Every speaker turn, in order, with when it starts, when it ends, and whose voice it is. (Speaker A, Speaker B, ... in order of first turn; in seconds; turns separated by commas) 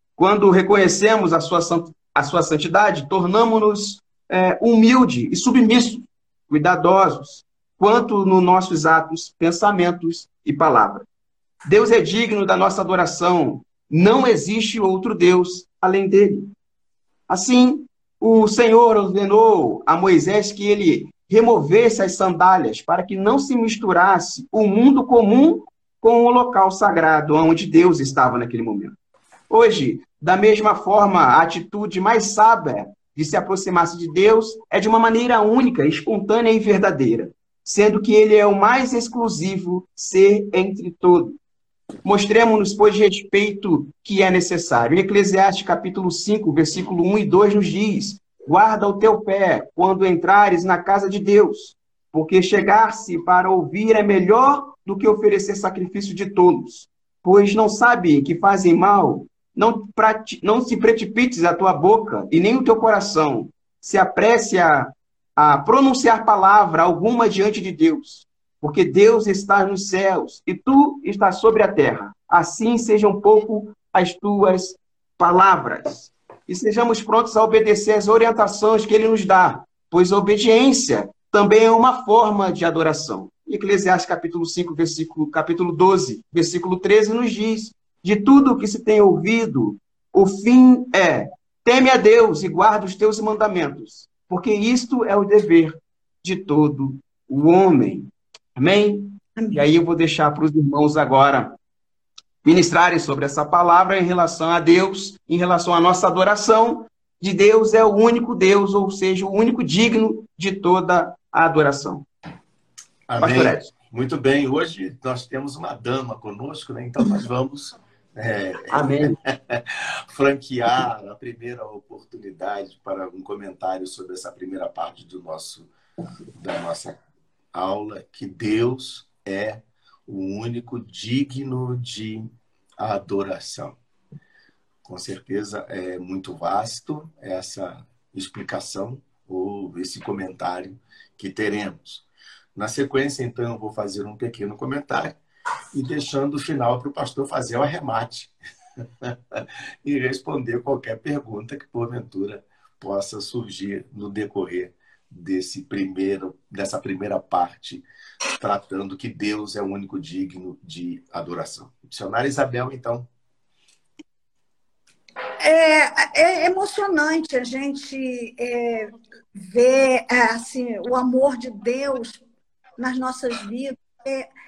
Speaker A: 0.2-11.1, Speaker A: 11.6-16.5, Speaker A: 17.3-28.9, Speaker A: 29.5-41.4, Speaker A: 42.0-101.6, Speaker B: 99.3-99.6, Speaker A: 102.4-112.0, Speaker C: 113.1-125.7, Speaker A: 113.2-113.7, Speaker A: 118.7-119.1, Speaker C: 126.3-127.0, Speaker C: 127.5-133.8, Speaker C: 134.8-142.0, Speaker C: 142.6-145.2, Speaker C: 145.7-148.3, Speaker C: 149.0-157.8, Speaker C: 158.3-163.1, Speaker B: 165.4-172.2, Speaker B: 172.8-174.3